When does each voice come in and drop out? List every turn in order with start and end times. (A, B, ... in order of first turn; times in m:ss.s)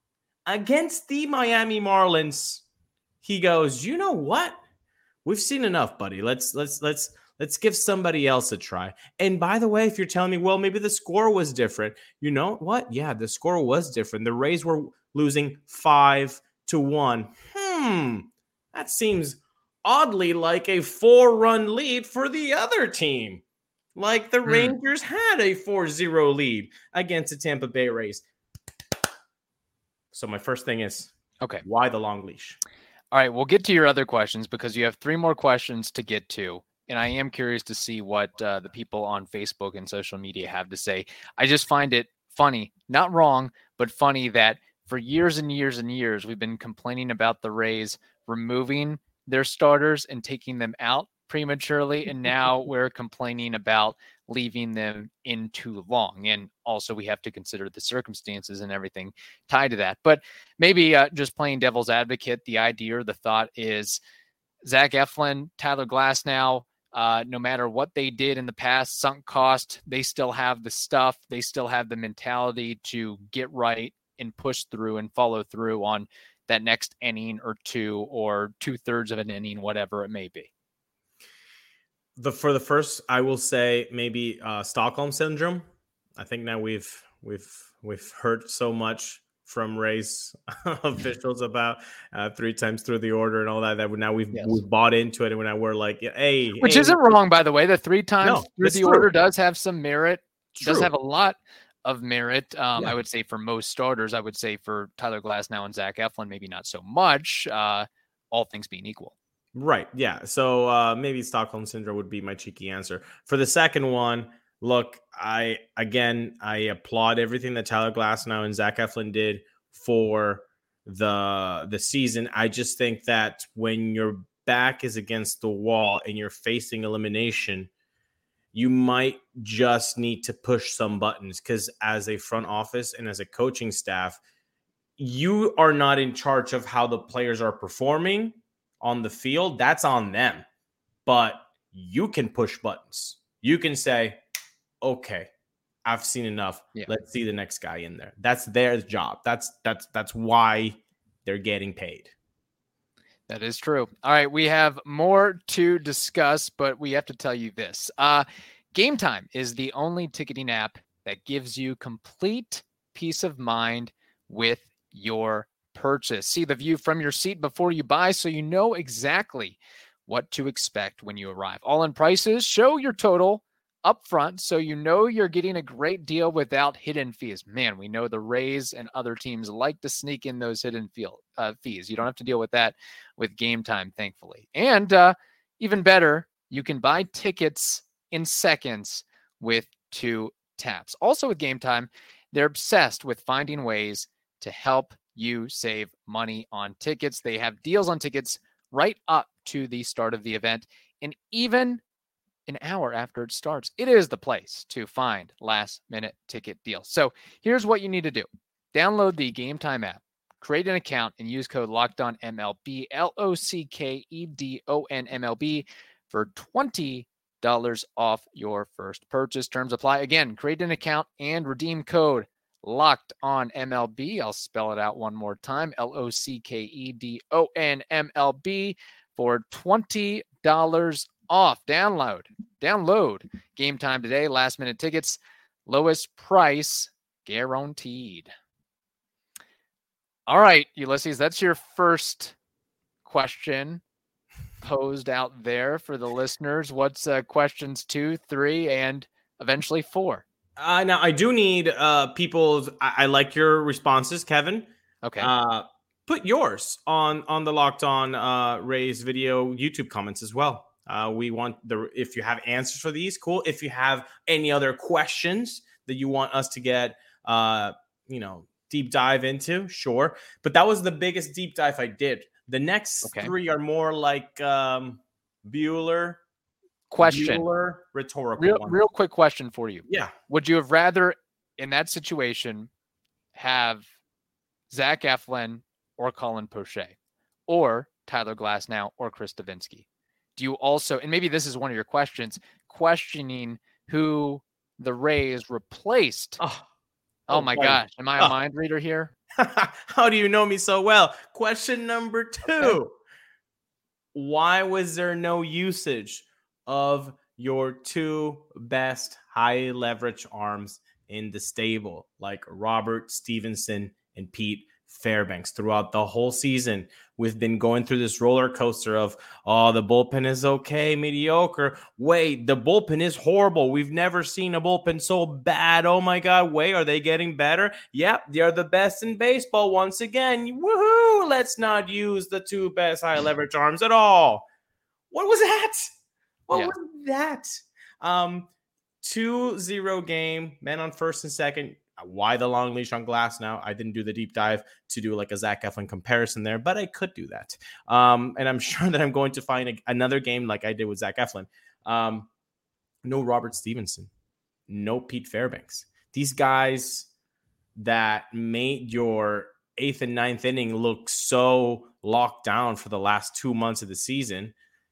0:00.4-0:02.6 A
0:03.2-0:04.6 A
0:05.2-0:23.4 A
0:24.0-0:28.2 A
0:24.4-0:24.8 B
0:30.1-0:31.1 A
0:31.6-0:32.6 A
0:33.1-1:04.0 B
1:04.6-1:20.5 B
1:22.2-1:25.6 A
1:26.2-1:37.0 A
1:34.3-1:34.6 B
1:36.6-1:49.1 B
1:38.2-1:39.1 A
1:40.5-1:40.9 A
1:49.5-2:07.7 A
2:08.5-2:14.2 A
2:15.0-2:20.4 A
2:21.0-2:24.2 A
2:24.8-2:25.3 A
2:25.8-2:32.1 A
2:33.3-3:21.8 B
3:22.5-3:58.3 B
4:00.3-4:02.3 B
4:03.0-4:03.8 B
4:04.6-4:10.2 B
4:10.6-4:36.2 A
4:15.0-4:15.3 B
4:33.0-4:33.3 B
4:36.9-4:37.5 B
4:37.0-4:38.8 A
4:38.4-4:42.7 B
4:39.9-4:40.1 A
4:43.3-4:43.8 B
4:44.7-4:46.9 B
4:47.5-4:49.8 B
4:50.4-4:56.4 B
4:56.4-4:56.6 A
4:57.3-4:58.3 A
4:57.3-4:59.1 B
4:59.4-5:03.0 A
5:04.1-5:34.4 A
5:35.1-5:35.9 A
5:36.5-5:38.5 A
5:39.0-5:52.3 A
5:53.0-5:54.1 A
5:54.7-5:57.1 A
5:57.8-6:04.5 A